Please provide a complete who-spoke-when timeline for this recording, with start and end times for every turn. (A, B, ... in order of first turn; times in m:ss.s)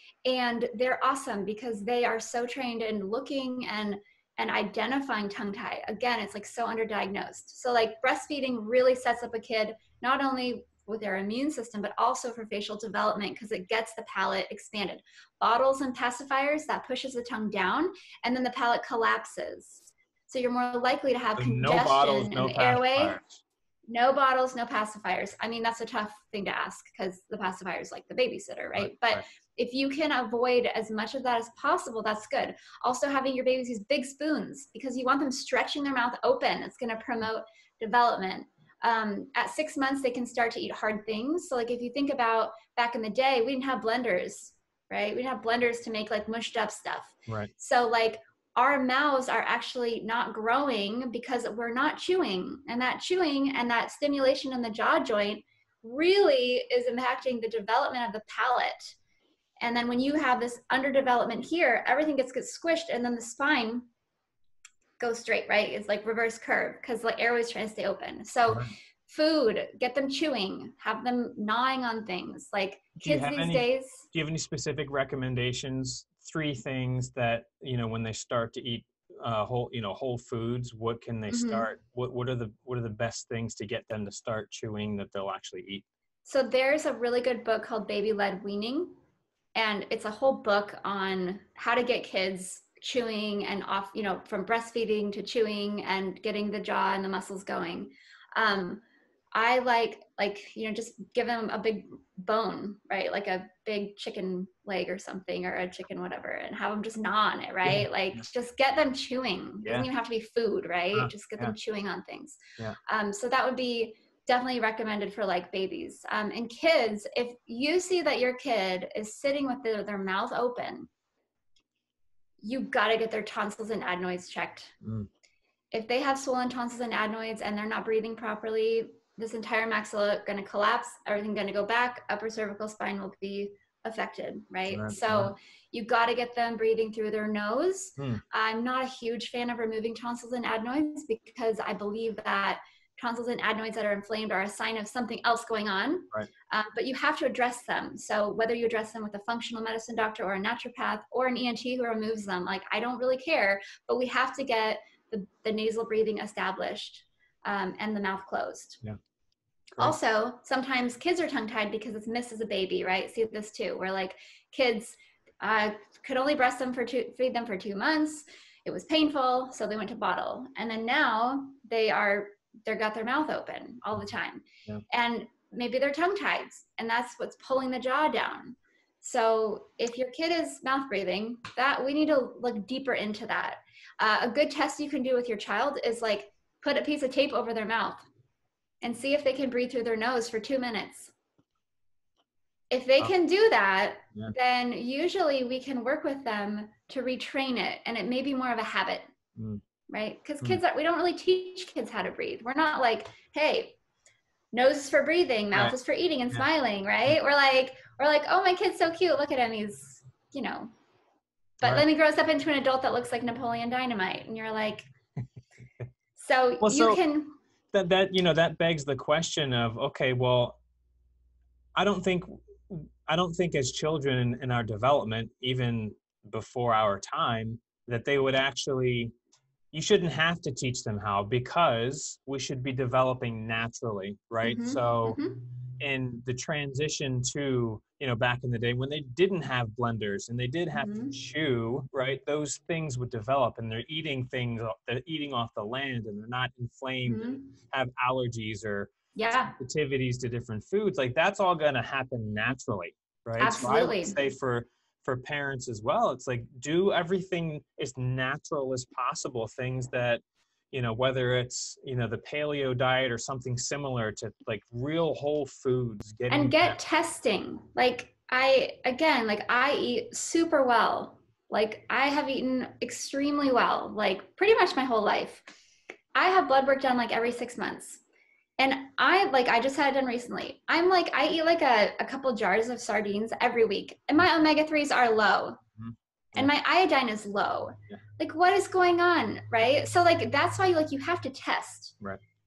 0:00.2-0:23.2 A
0:21.4-0:23.4 B
0:23.9-0:59.0 A
0:28.8-0:29.2 B
0:59.6-1:03.9 A
1:05.0-1:14.1 A
1:08.5-1:08.7 B
1:13.0-1:25.9 B
1:21.3-1:21.7 A
1:26.3-1:29.0 A
1:29.6-1:38.8 A
1:39.4-2:00.9 A
1:47.6-1:48.2 B
1:50.9-1:51.6 B
2:02.4-2:04.7 A
2:04.8-2:05.1 B
2:05.7-2:38.8 A
2:14.7-2:15.3 B
2:18.0-2:18.2 B
2:39.8-3:08.1 A
3:08.8-3:11.1 A
3:12.7-3:19.1 A
3:19.4-3:19.6 B
3:19.9-3:23.8 A
3:24.5-3:30.7 A
3:31.6-3:34.9 A
3:36.2-3:37.4 A
3:36.6-3:37.0 B
3:37.7-3:40.6 B
3:41.8-3:49.1 B
3:49.7-3:55.2 B
3:54.4-3:55.4 A
3:55.8-4:26.8 B
4:00.7-4:01.2 A
4:07.1-4:07.4 A
4:09.2-4:09.6 A
4:13.4-4:14.2 A
4:26.3-4:35.5 A
4:36.2-4:38.0 A
4:38.6-4:45.6 A
4:45.8-4:46.5 B
4:46.4-4:52.0 A